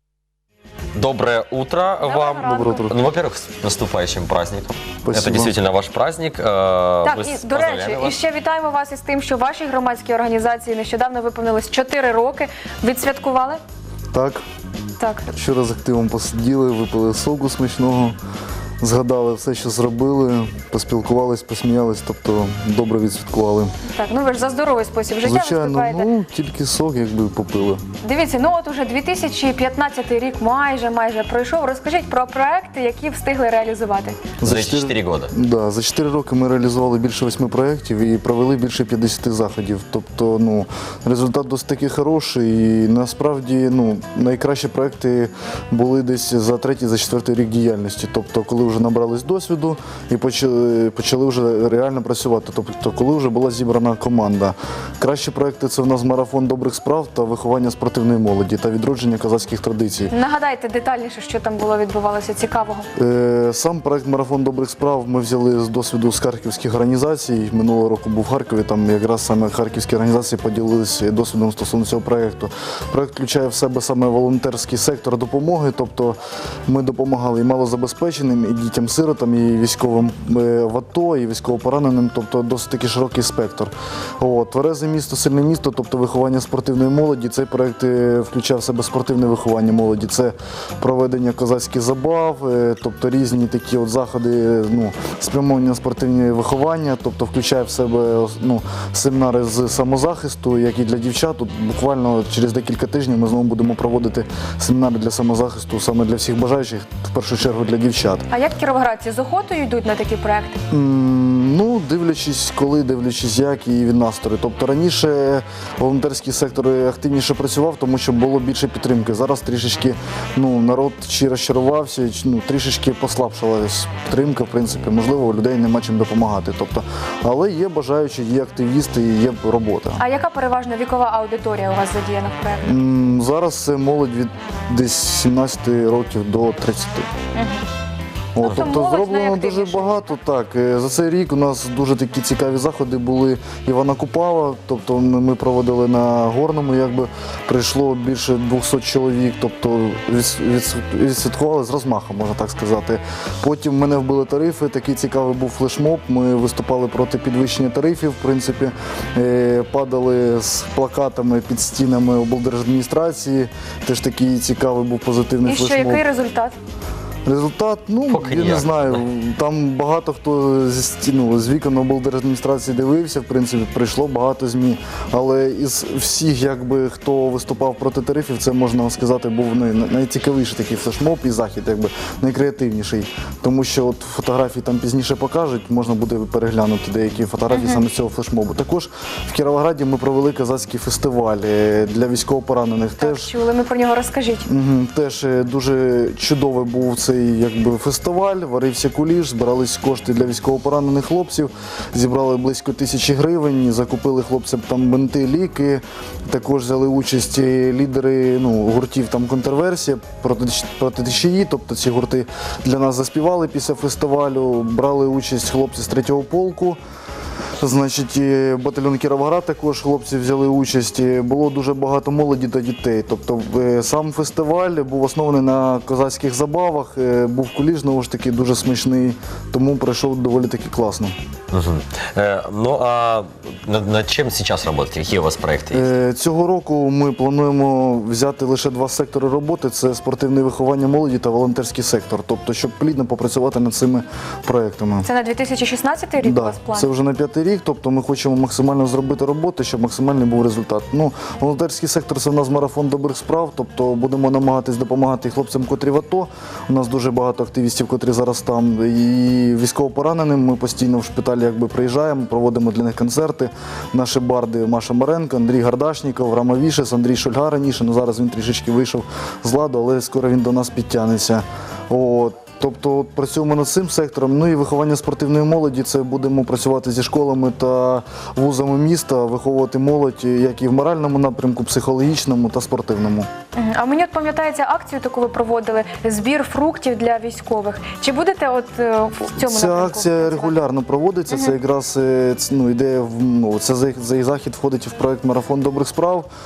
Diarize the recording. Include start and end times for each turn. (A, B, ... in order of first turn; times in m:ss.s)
0:00.9-0:08.2 A
0:02.0-0:02.9 B
0:02.4-0:02.9 C
0:05.0-0:05.6 C
0:07.0-0:13.6 B
0:14.1-0:14.4 C
0:15.0-0:15.3 B
0:15.3-0:18.2 C
0:18.8-0:23.7 C
0:23.8-0:26.1 B
0:25.2-0:27.8 C
0:28.0-0:34.2 B
0:34.4-1:00.1 C
0:34.4-0:35.3 A
1:00.1-1:02.9 B
1:03.0-1:48.2 C
1:48.3-1:50.6 B
1:50.7-2:10.0 C
2:10.0-2:12.7 B
2:12.6-2:17.1 C
2:17.3-2:17.6 B
2:18.3-2:46.0 C
2:18.4-2:20.1 B
2:45.4-2:46.6 B
2:47.2-3:13.3 C
2:48.1-2:49.0 A
3:07.5-3:07.8 B
3:13.0-3:14.5 B
3:14.5-3:36.8 C
3:37.6-3:51.1 C
3:51.5-3:55.9 A
3:55.7-4:05.0 C
4:05.0-4:06.9 B
4:06.2-4:43.3 C
4:43.5-4:50.5 B
4:49.4-4:56.3 C